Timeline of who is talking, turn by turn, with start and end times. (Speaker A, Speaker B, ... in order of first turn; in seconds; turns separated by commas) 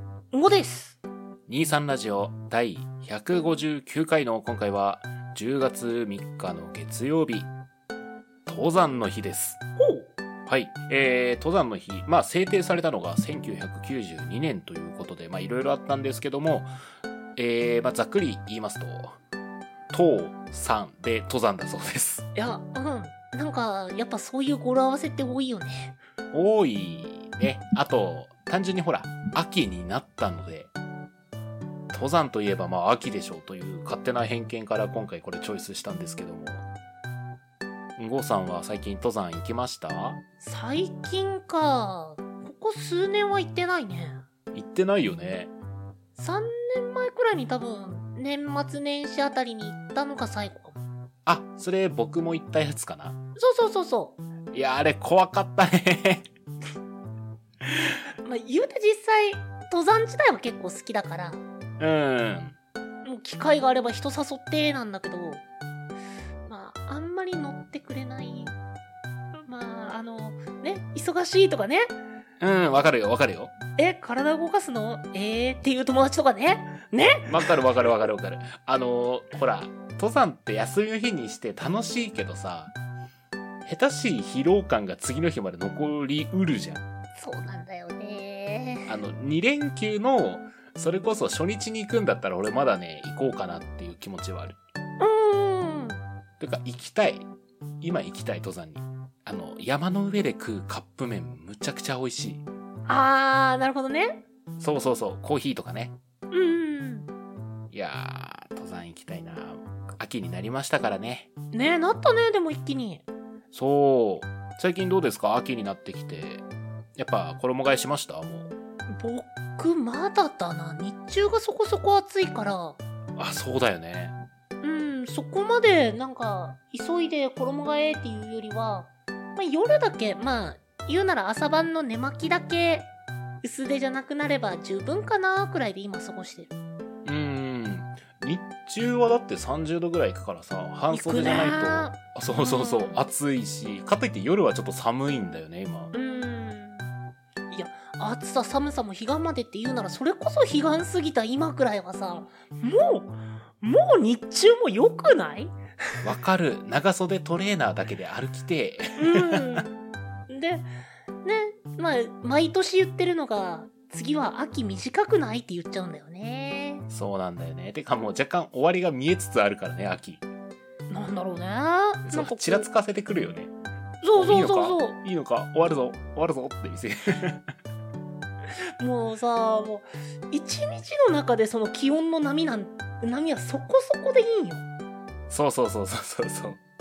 Speaker A: 0.3-1.0, Speaker B: 1.5-7.5, Speaker B: 8.4-9.6, Speaker A: 9.8-10.1, Speaker B: 10.4-16.7, Speaker B: 17.4-19.2, Speaker B: 19.9-22.3, Speaker A: 22.3-25.9, Speaker B: 26.3-30.7, Speaker B: 31.9-36.6, Speaker B: 38.0-40.2, Speaker A: 40.4-44.2, Speaker B: 44.5-45.5, Speaker A: 46.2-50.8, Speaker B: 51.2-53.2, Speaker A: 53.4-54.2, Speaker B: 54.5-56.3, Speaker A: 58.2-61.4, Speaker B: 61.8-62.6, Speaker A: 63.0-65.4, Speaker A: 66.5-68.5, Speaker A: 69.3-71.9, Speaker B: 72.4-73.5, Speaker A: 73.8-77.5, Speaker B: 77.3-82.7, Speaker B: 83.6-86.8, Speaker A: 87.2-89.0, Speaker B: 88.9-94.6, Speaker A: 95.0-96.0, Speaker B: 96.4-97.2, Speaker B: 97.8-102.4, Speaker A: 102.9-104.2, Speaker B: 104.6-106.0, Speaker A: 106.3-107.1, Speaker B: 107.7-111.3, Speaker A: 111.5-113.0, Speaker B: 113.5-116.4, Speaker B: 117.0-118.5, Speaker A: 118.9-122.8, Speaker B: 123.2-124.2, Speaker A: 124.6-132.9, Speaker A: 133.4-136.5, Speaker B: 137.0-145.9, Speaker A: 140.9-143.0, Speaker A: 145.9-146.9, Speaker A: 147.5-155.5, Speaker B: 156.0-159.7, Speaker A: 159.0-159.7, Speaker A: 160.3-160.7, Speaker A: 161.2-166.8, Speaker B: 166.9-170.2, Speaker A: 170.9-172.7, Speaker B: 172.0-173.5, Speaker A: 174.0-174.9, Speaker B: 174.1-177.4, Speaker A: 178.8-184.6, Speaker B: 185.3-186.6